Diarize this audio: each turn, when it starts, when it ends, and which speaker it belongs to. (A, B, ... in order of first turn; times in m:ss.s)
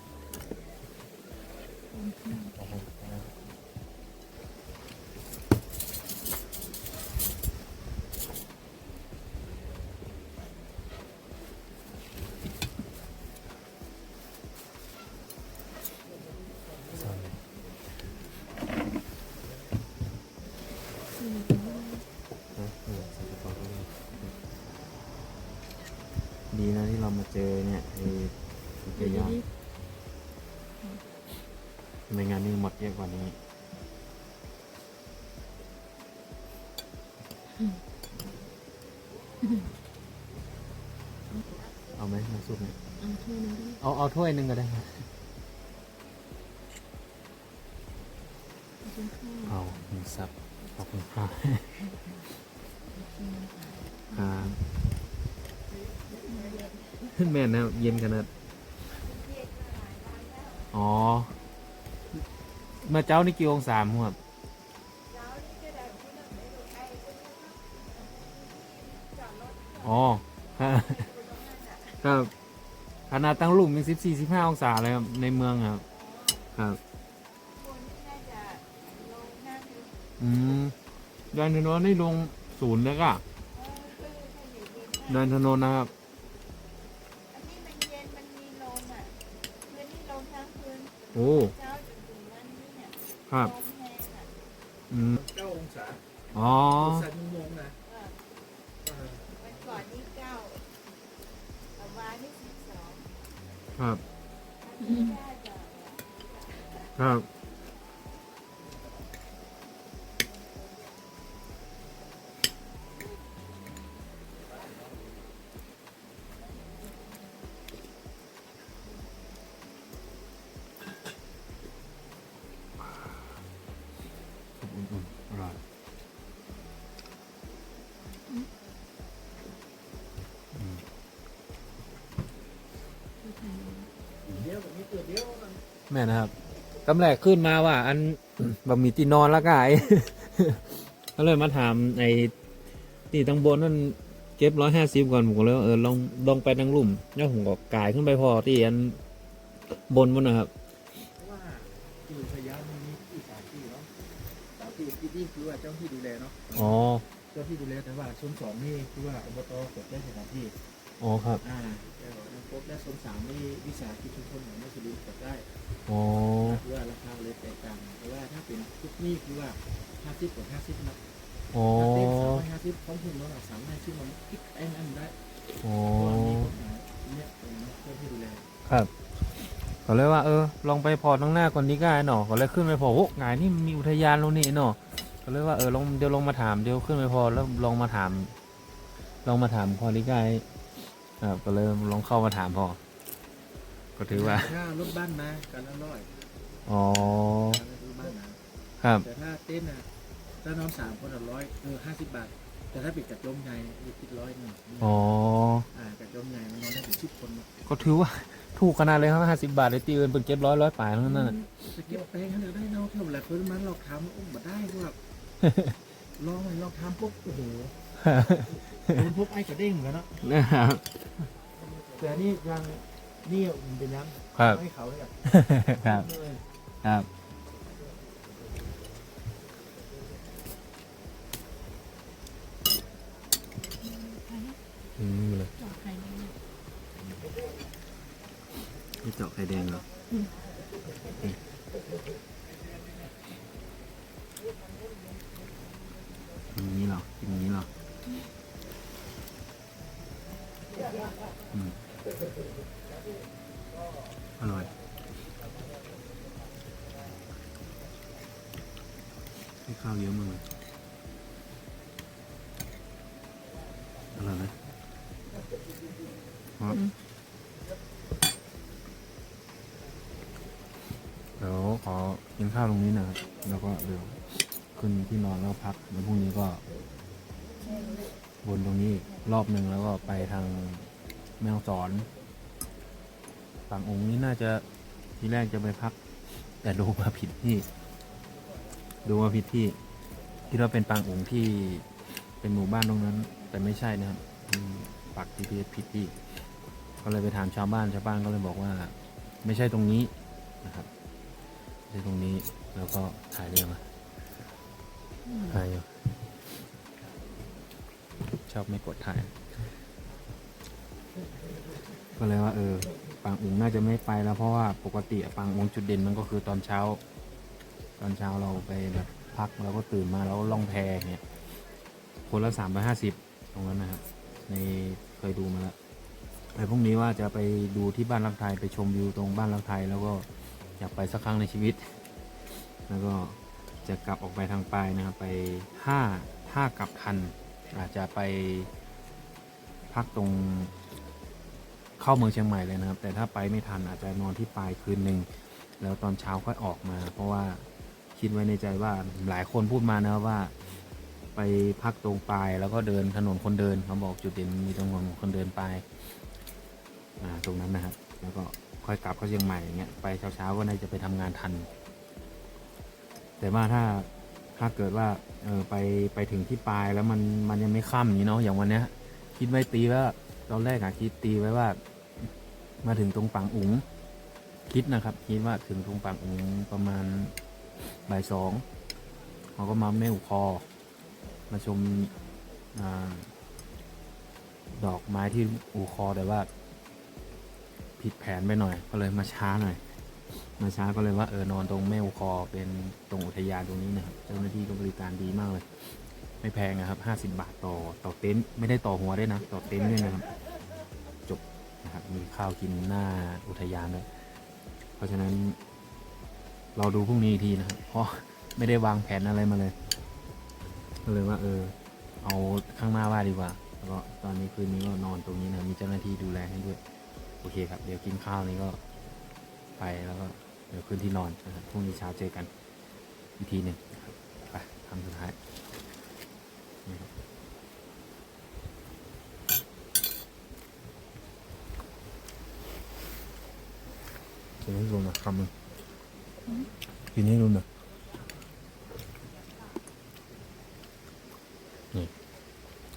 0:01.9-0:02.5 A
0:02.6-0:03.4 B
0:16.9-0:17.4 B
0:21.2-0:22.0 A
0:22.6-0:24.3 B
0:26.5-0:29.4 B
0:29.0-0:29.4 A
0:32.1-0:33.4 B
0:39.4-0:39.7 A
0:41.3-0:41.7 A
0:42.0-0:42.8 B
0:43.0-0:43.8 A
0:43.8-0:45.1 B
0:48.8-0:49.6 A
0:49.5-0:51.8 B
0:52.9-0:54.6 A
0:54.1-0:54.6 B
0:56.2-0:56.6 A
0:57.1-0:58.3 B
0:58.9-1:00.6 C
1:00.7-1:01.3 B
1:02.8-1:04.2 B
1:05.1-1:09.9 C
1:09.8-1:11.1 B
1:10.8-1:12.0 C
1:12.0-1:12.3 B
1:13.1-1:15.8 B
1:16.0-1:16.4 C
1:16.5-1:16.8 B
1:17.6-1:19.9 C
1:20.2-1:20.7 B
1:21.3-1:23.2 B
1:23.6-1:25.0 C
1:25.1-1:25.9 B
1:27.3-1:29.1 C
1:29.7-1:32.9 C
1:31.1-1:31.5 B
1:33.3-1:33.6 B
1:33.5-1:34.3 C
1:34.9-1:35.2 B
1:35.1-1:37.8 D
1:36.3-1:37.1 B
1:38.8-1:39.8 D
1:39.4-1:40.6 C
1:41.8-1:43.0 C
1:43.8-1:44.0 B
1:44.6-1:46.6 C
1:44.8-1:45.2 A
1:47.0-1:47.3 B
2:02.8-2:03.2 B
2:04.6-2:05.6 B
2:10.5-2:10.8 B
2:13.2-2:13.9 A
2:14.3-2:15.6 D
2:15.9-2:16.3 B
2:16.8-2:22.3 B
2:23.1-2:29.0 B
2:29.7-2:30.5 B
2:31.2-2:33.9 D
2:34.6-2:36.8 D
2:36.5-2:37.0 B
2:37.3-2:40.6 D
2:41.0-2:41.4 B
2:41.4-2:45.5 D
2:45.9-2:46.6 B
2:46.4-2:51.0 D
2:51.5-2:52.4 B
2:51.7-2:55.2 D
2:55.6-2:56.5 B
2:55.9-2:58.5 D
2:58.7-2:58.9 B
2:59.8-3:08.3 B
3:09.2-3:10.5 B
3:11.2-3:12.8 B
3:14.0-3:14.6 B
3:14.1-3:16.1 D
3:16.7-3:17.6 B
3:16.9-3:18.4 D
3:18.8-3:19.1 B
3:19.0-3:19.9 D
3:20.4-3:25.0 D
3:24.8-3:25.7 B
3:25.7-3:27.5 D
3:27.7-3:31.8 B
3:31.1-3:31.5 A
3:31.7-3:35.0 D
3:35.4-3:35.8 B
3:36.2-3:37.8 D
3:38.0-3:39.0 B
3:38.5-3:40.2 D
3:40.2-3:41.0 B
3:41.8-3:46.4 D
3:44.4-3:44.6 B
3:45.3-3:46.1 B
3:46.8-3:47.1 B
3:53.8-3:54.6 A
3:55.0-3:55.5 B
3:55.6-3:56.4 A
3:59.0-3:59.8 B
4:06.5-4:07.7 B
4:11.5-4:11.8 B
4:14.4-4:14.7 B
4:19.7-4:20.5 B
4:24.2-4:24.6 B
4:26.6-4:26.8 B
4:31.4-4:36.6 B
4:37.6-4:38.1 A
4:38.4-4:40.9 B
4:41.4-4:42.1 B
4:43.7-4:44.6 B
4:45.2-4:47.7 B
4:49.0-4:49.8 B
4:50.5-4:56.2 B
4:57.0-5:00.1 B
5:00.6-5:00.9 B
5:01.9-5:03.8 B
5:05.2-5:05.6 A
5:05.5-5:06.0 B
5:08.5-5:09.5 B
5:12.2-5:17.0 B
5:18.0-5:21.2 B
5:22.3-5:25.8 B
5:26.6-5:32.0 B
5:32.6-5:38.7 B
5:39.9-5:40.7 B
5:42.0-5:45.3 B
5:45.8-5:50.8 B
5:51.4-5:56.0 B
5:57.2-6:01.7 B
6:03.4-6:12.3 B
6:12.8-6:13.9 B
6:14.7-6:18.6 B
6:19.6-6:20.6 B
6:21.5-6:22.1 B
6:22.7-6:23.3 B
6:24.7-6:26.5 B
6:28.0-6:40.3 B
6:41.3-6:44.1 B
6:45.0-6:45.6 B
6:46.8-6:49.8 B
6:51.0-6:56.8 B
6:57.4-6:58.8 B
6:59.8-7:02.5 B
7:03.4-7:05.4 B
7:14.6-7:15.5 B
7:17.1-7:17.6 B